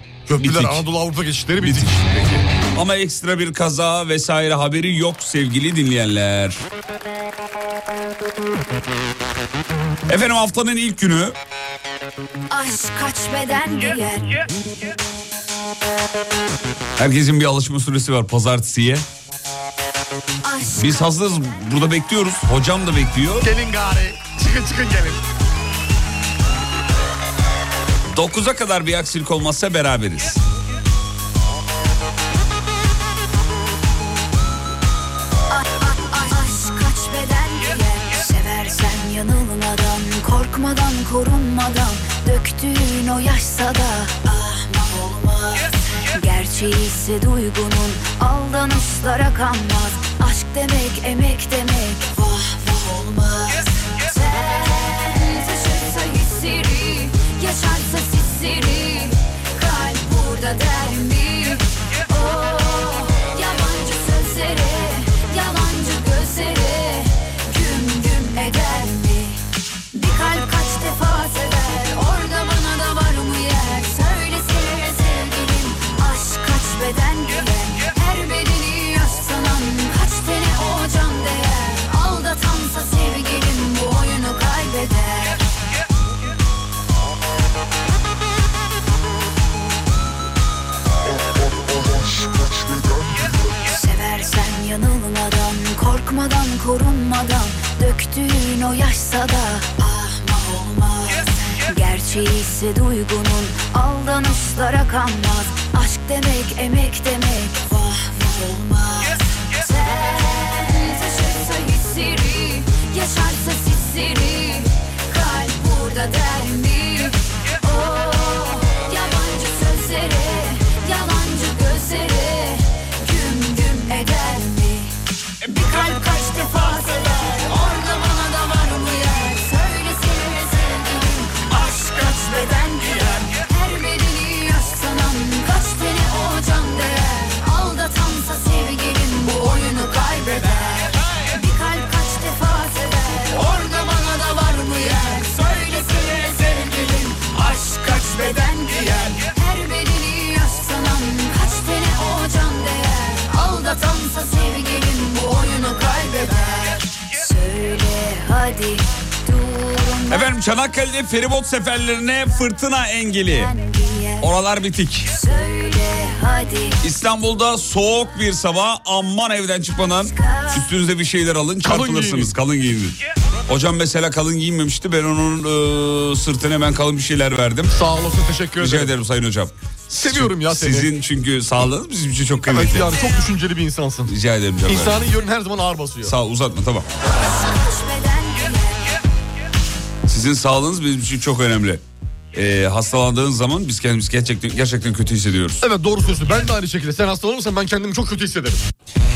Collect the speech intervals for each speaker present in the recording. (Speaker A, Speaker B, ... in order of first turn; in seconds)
Speaker A: 0.3-2.5, 23.4-25.2, 171.6-172.3, 177.7-178.9, 179.9-180.9, 182.5-184.1, 184.7-186.1, 195.6-198.7
Speaker B: 0.4-0.9, 1.6-2.0, 2.7-6.6, 10.1-11.4, 17.0-19.1, 20.8-23.5, 28.1-30.4, 160.1-163.5, 164.2-165.1, 166.8-177.8, 178.6-182.9, 184.1-185.1, 186.0-186.9, 190.1-195.6
Speaker C: 12.5-14.4, 20.4-20.9, 35.5-69.4, 69.9-85.4, 91.9-92.2, 93.7-160.3, 163.4-164.3, 165.1-166.8, 170.1-170.6, 187.1-189.0